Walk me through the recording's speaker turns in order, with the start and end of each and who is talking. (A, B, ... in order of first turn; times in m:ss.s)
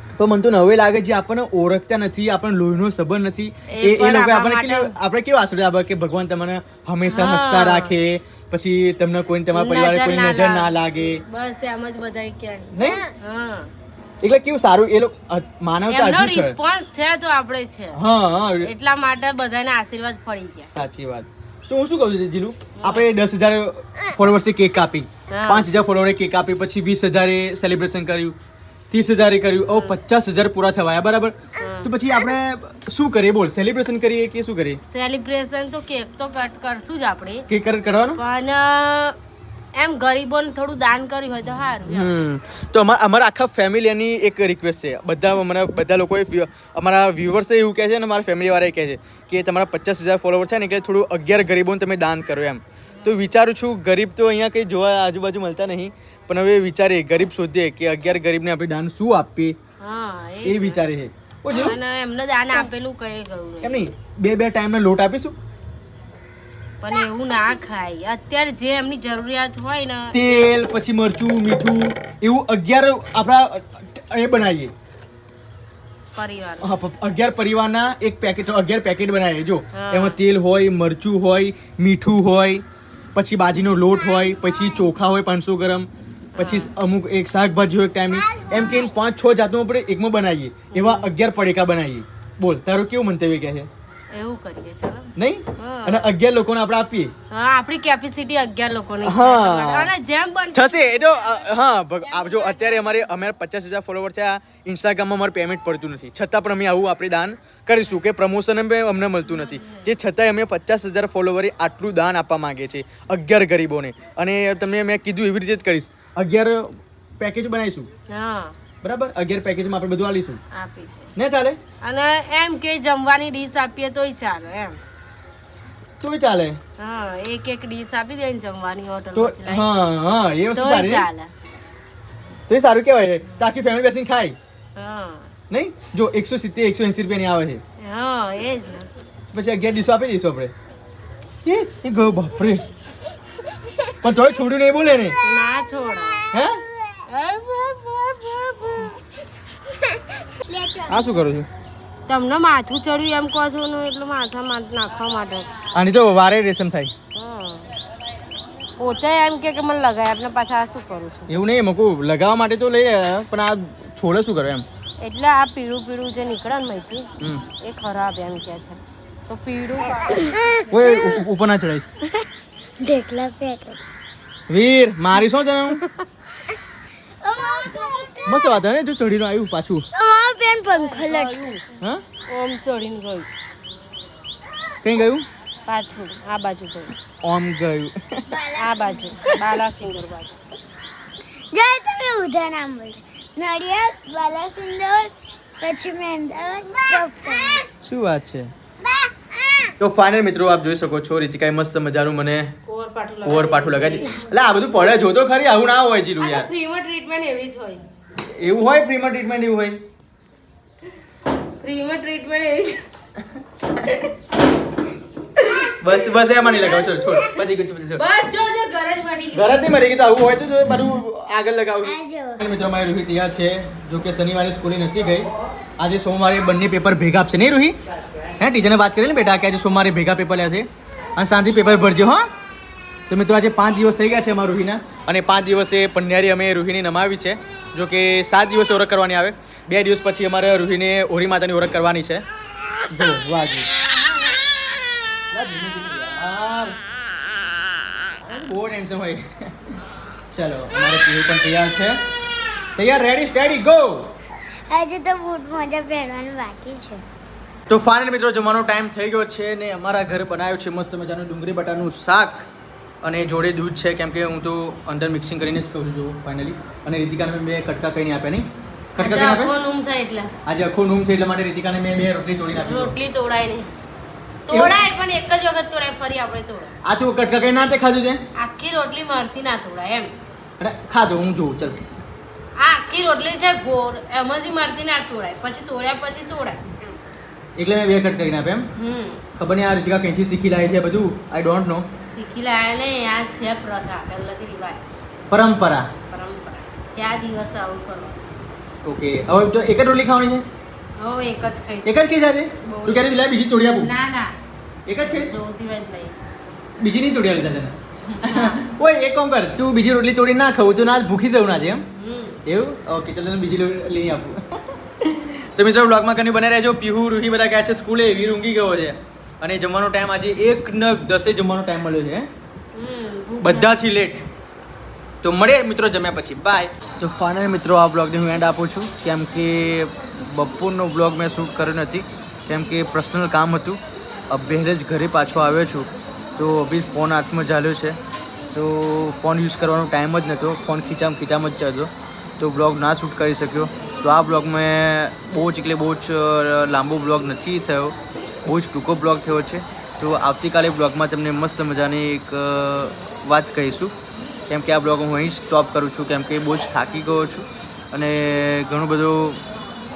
0:00.2-0:11.2 A
0:03.7-0:04.9 B
0:07.1-0:07.9 B
0:09.5-0:13.7 B
0:12.8-0:13.0 A
0:14.2-0:16.6 A
0:15.9-0:18.0 B
0:17.9-0:18.7 A
0:18.6-0:20.7 B
0:20.7-0:28.4 A
0:22.8-0:23.1 B
0:25.3-0:25.7 B
0:28.9-0:34.8 A
0:29.7-0:30.0 B
0:31.6-0:31.9 B
0:34.8-0:37.5 B
0:37.5-0:38.2 A
0:38.2-0:39.2 B
0:39.8-0:42.1 B
0:41.9-0:59.6 A
0:59.8-1:00.8 B
1:00.4-1:01.8 A
1:01.5-1:03.8 B
1:03.6-1:05.4 A
1:06.8-1:10.2 B
1:10.1-1:14.7 A
1:16.1-1:16.8 B
1:16.6-1:22.6 A
1:19.7-1:20.2 B
1:23.2-1:33.7 A
1:26.4-1:26.7 B
1:30.7-1:31.1 B
1:34.1-1:36.1 B
1:35.2-1:37.1 A
1:37.3-1:43.1 B
1:39.0-1:39.9 A
1:40.5-1:57.9 A
1:49.4-1:49.9 B
1:58.1-1:58.6 B
1:58.8-2:00.4 A
2:00.5-2:01.1 B
2:01.2-2:01.6 A
2:01.8-2:04.8 B
2:06.0-2:06.6 A
2:06.8-2:09.7 B
2:09.2-2:11.1 A
2:10.5-2:11.3 B
2:12.5-2:14.4 A
2:14.8-2:15.3 B
2:15.5-2:17.6 A
2:17.8-2:18.9 B
2:19.3-2:20.5 A
2:21.4-2:22.7 A
2:24.0-2:25.2 A
2:25.2-2:26.3 B
2:26.3-2:26.6 A
2:27.1-2:29.0 B
2:30.4-2:31.1 C
2:30.9-2:31.5 A
2:32.1-2:35.5 B
2:35.7-2:36.9 A
2:37.1-2:37.7 B
2:38.8-2:41.3 B
2:41.3-2:44.6 A
2:45.0-2:50.6 B
2:47.2-2:47.5 A
2:50.3-2:50.8 C
2:50.7-2:51.9 A
2:52.8-2:53.9 C
2:54.5-2:55.8 A
2:57.2-2:58.6 C
2:58.2-2:59.9 A
2:59.9-3:01.5 C
3:00.7-3:01.6 B
3:02.3-3:03.3 B
3:04.8-3:05.3 A
3:05.7-3:06.9 B
3:07.2-3:08.4 A
3:08.3-3:09.1 C
3:08.6-3:10.4 B
3:11.5-3:17.7 C
3:17.8-3:18.5 A
3:18.8-3:19.7 C
3:19.8-3:22.5 A
3:22.7-3:24.2 B
3:23.2-3:26.5 A
3:26.2-3:27.9 B
3:28.2-3:29.8 A
3:31.6-3:32.8 B
3:33.2-3:34.1 A
3:35.7-3:38.0 A
3:36.2-3:37.4 B
3:38.0-3:39.6 B
3:39.3-3:45.3 A
3:41.8-3:42.4 C
3:45.8-3:47.8 A
3:48.4-3:52.3 A
3:53.1-4:02.2 A
4:02.9-4:03.7 A
4:05.3-4:06.8 A
4:08.2-4:09.8 A
4:10.3-4:12.0 A
4:12.8-4:14.1 A
4:14.7-4:17.0 C
4:17.7-4:22.5 A
4:23.0-4:29.5 A
4:29.0-4:30.3 B
4:30.5-4:33.0 A
4:32.6-4:33.7 B
4:34.5-4:36.8 B
4:34.5-4:34.9 A
4:36.8-4:38.2 A
4:38.4-4:40.1 B
4:40.6-4:41.8 A
4:42.6-4:46.8 B
4:47.6-4:48.7 A
4:48.8-4:49.2 B
4:49.4-4:51.9 A
4:52.0-4:55.0 B
4:55.3-4:55.9 A
4:56.1-4:58.2 B
4:58.8-5:00.5 A
5:01.0-5:02.0 B
5:01.8-5:03.9 A
5:02.6-5:03.1 B
5:03.8-5:04.4 B
5:04.9-5:05.3 A
5:05.0-5:06.3 B
5:06.8-5:11.8 A
5:08.1-5:08.6 B
5:12.0-5:12.4 B
5:12.5-5:22.3 A
5:22.7-5:23.8 B
5:23.4-5:24.2 A
5:25.2-5:38.0 A
5:38.5-5:53.9 A
5:54.5-5:59.4 A